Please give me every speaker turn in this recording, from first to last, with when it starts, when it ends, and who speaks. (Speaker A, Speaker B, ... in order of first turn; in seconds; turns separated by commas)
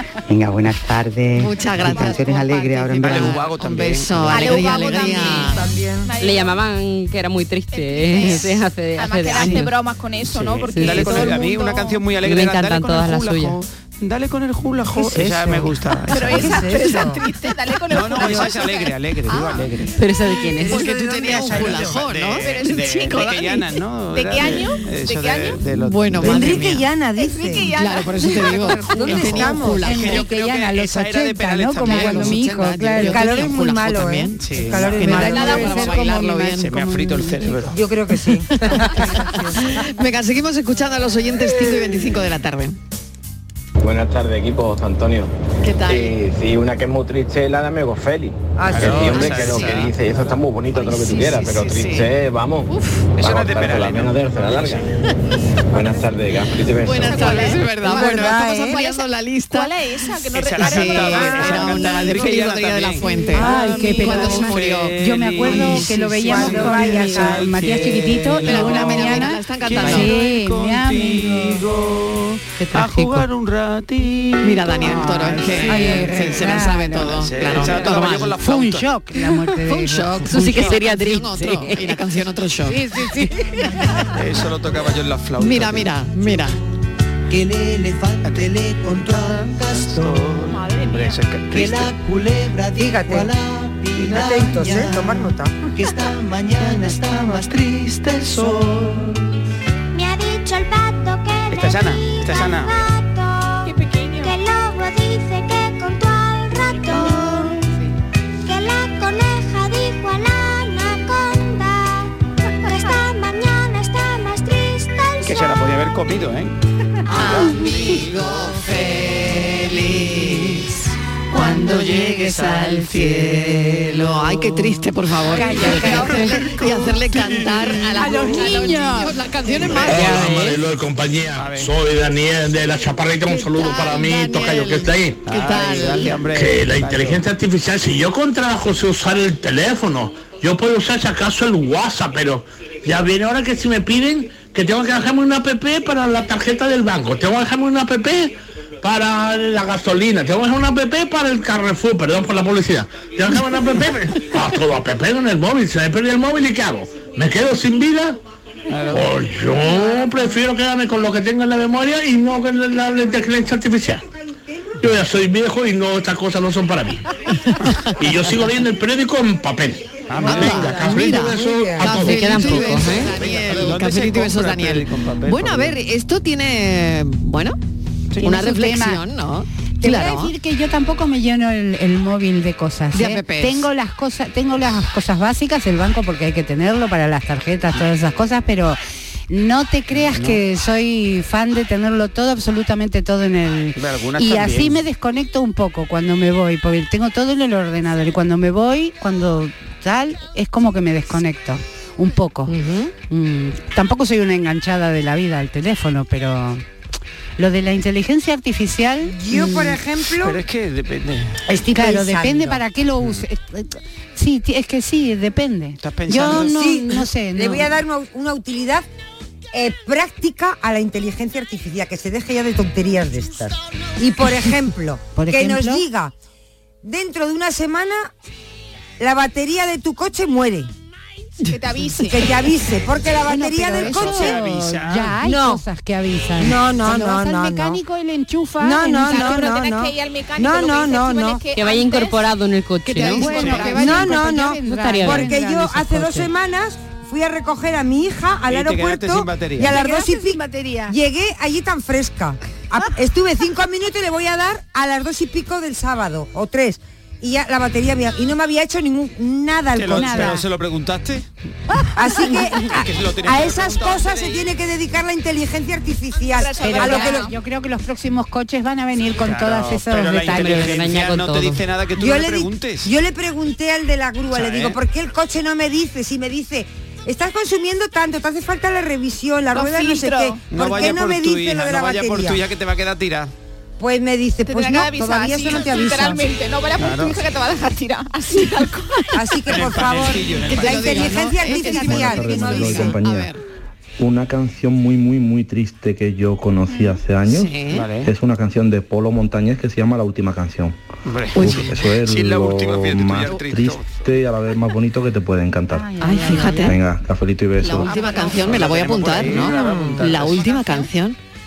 Speaker A: 0.3-3.5, Speaker B: 1.4-2.4, Speaker C: 2.0-2.4, Speaker B: 3.0-5.7, Speaker D: 3.0-4.8, Speaker C: 4.3-6.6, Speaker E: 5.6-6.1, Speaker F: 6.2-9.8, Speaker C: 7.7-12.0, Speaker D: 10.3-16.7, Speaker F: 10.7-11.4, Speaker F: 12.2-13.6, Speaker E: 15.1-15.7, Speaker C: 16.1-18.9, Speaker E: 16.2-17.2, Speaker D: 17.9-19.9, Speaker B: 19.3-19.7, Speaker F: 20.0-20.9, Speaker E: 20.6-22.1, Speaker B: 20.6-23.8, Speaker D: 21.5-26.8, Speaker C: 22.4-23.3, Speaker C: 24.1-25.6, Speaker B: 25.7-26.9, Speaker E: 26.2-27.7, Speaker C: 27.2-29.1, Speaker B: 27.7-30.3, Speaker E: 28.7-30.1, Speaker D: 29.2-32.5, Speaker G: 29.8-33.4, Speaker B: 31.8-36.7, Speaker E: 33.0-35.8, Speaker D: 34.4-35.4, Speaker G: 35.0-37.7, Speaker D: 36.5-37.8, Speaker E: 37.7-39.5, Speaker B: 38.5-42.8, Speaker H: 43.8-45.3, Speaker B: 45.6-46.2, Speaker H: 45.9-54.9, Speaker E: 48.6-49.3, Speaker D: 48.7-50.3, Speaker B: 49.1-49.7, Speaker B: 50.7-52.1, Speaker B: 52.7-53.1, Speaker D: 53.1-54.7, Speaker B: 55.1-55.4, Speaker E: 55.7-56.1, Speaker H: 55.7-57.4, Speaker B: 56.8-59.8, Speaker C: 57.0-62.2, Speaker E: 57.8-58.8, Speaker D: 60.3-78.9, Speaker B: 60.6-65.0, Speaker G: 63.3-71.6, Speaker C: 63.6-64.0, Speaker E: 66.2-67.5, Speaker B: 68.4-70.2, Speaker G: 72.6-73.3, Speaker B: 74.4-78.4, Speaker G: 74.8-77.2, Speaker G: 77.8-80.8, Speaker B: 79.2-83.9, Speaker F: 80.3-82.0, Speaker G: 82.7-84.1, Speaker D: 84.1-85.9, Speaker B: 85.4-86.6, Speaker I: 87.3-90.6, Speaker C: 90.5-91.2, Speaker D: 90.9-91.9, Speaker I: 91.5-99.1, Speaker E: 92.8-93.3, Speaker E: 94.1-95.6, Speaker J: 99.9-107.6, Speaker D: 101.5-102.8, Speaker C: 103.6-104.4, Speaker J: 108.4-112.1, Speaker J: 112.6-115.7, Speaker D: 115.2-116.5, Speaker B: 117.1-120.8, Speaker D: 117.1-118.0, Speaker B: 121.3-130.4, Speaker D: 122.0-122.3, Speaker G: 125.3-126.5, Speaker G: 128.0-129.2, Speaker K: 129.8-135.2, Speaker F: 129.9-130.6, Speaker D: 131.3-131.7, Speaker B: 133.3-136.2, Speaker D: 135.3-137.3, Speaker K: 136.3-158.2, Speaker D: 158.7-159.1, Speaker K: 158.9-164.0, Speaker E: 164.3-164.8, Speaker K: 164.8-167.0, Speaker K: 168.0-172.3, Speaker D: 170.1-170.7, Speaker E: 170.1-172.1, Speaker B: 170.2-177.6, Speaker F: 172.0-173.1, Speaker D: 172.9-175.8, Speaker B: 178.2-180.3, Speaker G: 178.2-179.0, Speaker G: 179.8-188.8, Speaker B: 182.9-183.7, Speaker G: 189.3-202.6, Speaker D: 189.9-190.4, Speaker D: 193.8-194.8, Speaker B: 202.5-202.9, Speaker G: 203.1-206.6, Speaker G: 207.4-209.8, Speaker E: 209.1-210.4, Speaker D: 210.2-211.4, Speaker E: 211.5-212.6, Speaker G: 211.7-217.7, Speaker D: 215.8-216.7, Speaker E: 216.3-218.9, Speaker E: 219.5-226.1, Speaker G: 225.2-225.8, Speaker E: 226.8-228.1, Speaker E: 229.0-230.7, Speaker B: 231.4-232.1, Speaker C: 231.5-232.5, Speaker E: 232.1-234.4, Speaker G: 233.3-239.5, Speaker D: 233.8-235.2, Speaker E: 235.2-235.6, Speaker E: 236.4-237.8, Speaker E: 238.6-241.4, Speaker C: 239.1-242.3, Speaker F: 241.6-243.7, Speaker G: 243.0-246.3, Speaker D: 243.3-243.7, Speaker E: 243.7-260.4, Speaker F: 244.6-245.3, Speaker D: 248.5-249.8, Speaker G: 249.7-250.9, Speaker D: 259.7-261.3, Speaker G: 259.9-260.4, Speaker E: 261.9-267.3, Speaker D: 262.6-264.5, Speaker C: 266.3-267.3, Speaker G: 266.6-270.8, Speaker D: 269.2-272.9, Speaker F: 270.3-271.6, Speaker E: 272.0-282.4, Speaker D: 274.3-274.8, Speaker C: 279.5-280.4, Speaker D: 280.5-283.3, Speaker E: 283.8-286.3, Speaker C: 284.5-289.0, Speaker D: 286.8-287.2, Speaker E: 289.1-293.0, Speaker D: 289.5-291.2, Speaker B: 290.4-293.4, Speaker L: 291.7-293.3, Speaker L: 294.0-300.8, Speaker B: 297.3-297.9, Speaker D: 297.7-298.1, Speaker D: 301.1-304.0, Speaker B: 301.4-301.7, Speaker L: 301.4-305.9, Speaker G: 305.7-306.8, Speaker B: 306.0-306.8, Speaker L: 306.6-307.9, Speaker B: 307.6-311.2, Speaker G: 308.0-308.3, Speaker D: 308.0-310.8